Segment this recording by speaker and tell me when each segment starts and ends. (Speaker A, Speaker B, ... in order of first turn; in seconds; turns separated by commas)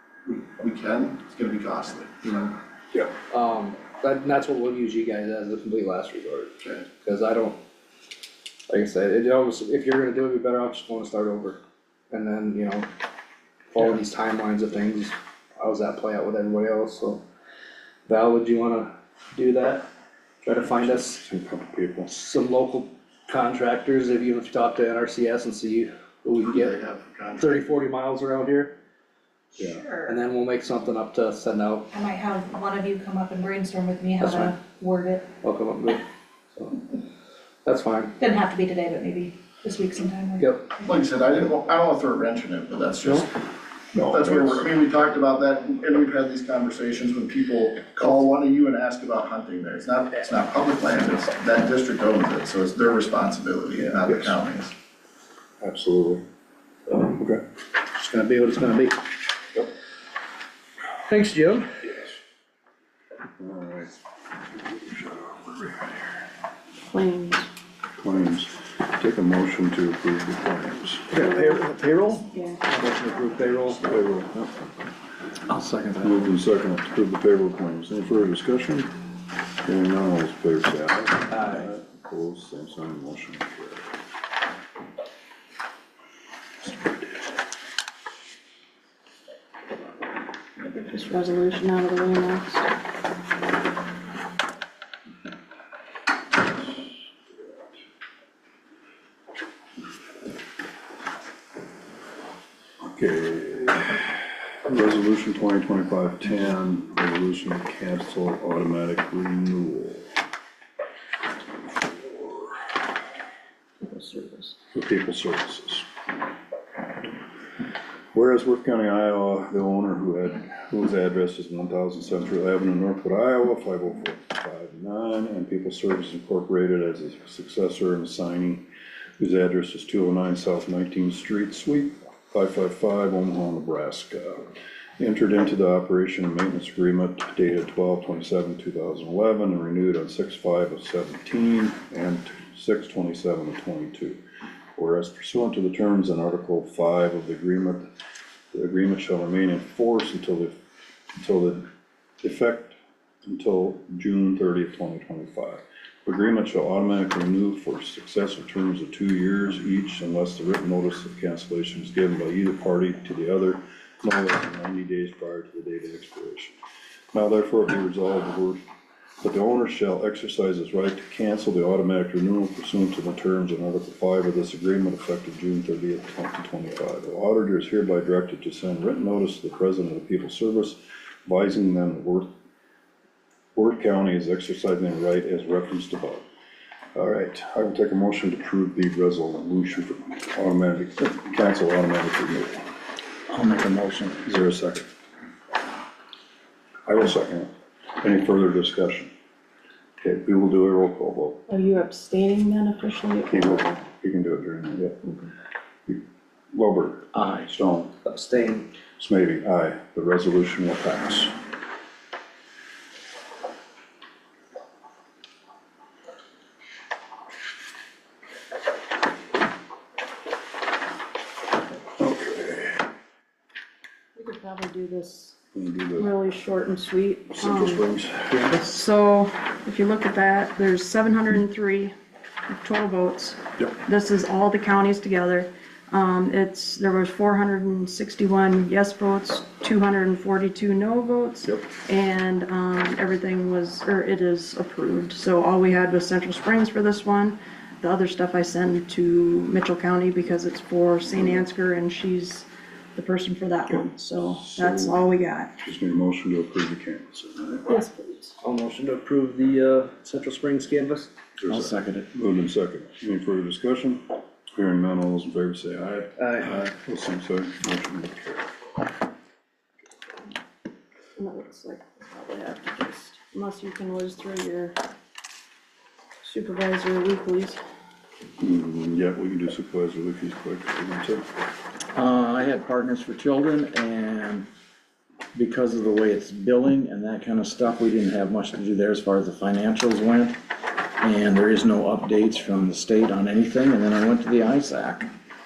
Speaker A: 0.2-2.5, Speaker B: 3.3-7.6, Speaker B: 8.7-11.6, Speaker B: 12.1-12.9, Speaker B: 13.7-17.2, Speaker B: 18.1-19.8, Speaker B: 20.4-21.2, Speaker C: 20.6-22.1, Speaker B: 22.1-26.8, Speaker A: 26.5-27.7, Speaker B: 27.4-28.7, Speaker D: 29.5-30.2, Speaker C: 29.6-29.8, Speaker B: 30.0-31.9, Speaker D: 31.9-35.3, Speaker B: 34.2-34.6, Speaker B: 35.4-36.0, Speaker B: 36.5-36.9, Speaker B: 37.6-38.2, Speaker D: 38.2-40.9, Speaker B: 40.4-40.7, Speaker A: 40.9-43.4, Speaker C: 43.9-44.7, Speaker A: 44.1-54.7, Speaker C: 54.0-54.3, Speaker C: 55.6-56.2, Speaker C: 57.1-57.4, Speaker B: 57.9-59.0, Speaker B: 61.1-61.7, Speaker C: 61.9-62.1, Speaker C: 63.4-63.9, Speaker C: 64.6-66.0, Speaker E: 66.8-67.5, Speaker C: 68.0-71.1, Speaker B: 71.1-73.9, Speaker E: 72.3-72.6, Speaker C: 73.8-74.3, Speaker F: 75.5-76.3, Speaker C: 76.0-79.0, Speaker C: 79.6-83.9, Speaker B: 81.3-81.6, Speaker E: 90.6-92.7, Speaker C: 102.8-110.1, Speaker C: 112.1-112.4, Speaker E: 113.8-114.6, Speaker C: 114.7-115.9, Speaker C: 118.1-128.7, Speaker C: 129.2-144.2, Speaker C: 144.8-147.9, Speaker C: 148.5-150.6, Speaker C: 151.1-151.6, Speaker C: 152.2-166.6, Speaker C: 167.1-168.6, Speaker C: 169.2-182.3, Speaker C: 183.5-186.2, Speaker C: 186.9-192.7, Speaker F: 193.3-194.2, Speaker C: 194.2-194.8, Speaker C: 196.8-199.1, Speaker C: 200.0-201.4, Speaker E: 201.5-203.8, Speaker C: 203.3-205.0, Speaker C: 205.8-207.9, Speaker F: 207.1-207.5, Speaker B: 208.0-208.7, Speaker C: 209.0-211.3, Speaker C: 222.0-222.8, Speaker E: 224.1-225.4, Speaker C: 225.5-226.1, Speaker E: 225.9-227.8, Speaker C: 227.3-228.6, Speaker E: 228.5-231.9, Speaker E: 232.5-255.5, Speaker C: 253.7-255.0, Speaker C: 255.6-257.7, Speaker E: 257.7-258.4, Speaker B: 258.4-261.1, Speaker C: 261.4-268.5, Speaker F: 261.5-262.1, Speaker B: 266.2-266.6, Speaker E: 271.2-274.8, Speaker E: 276.2-277.6, Speaker C: 278.4-281.3, Speaker F: 281.9-284.5, Speaker F: 285.3-290.4, Speaker F: 291.0-295.1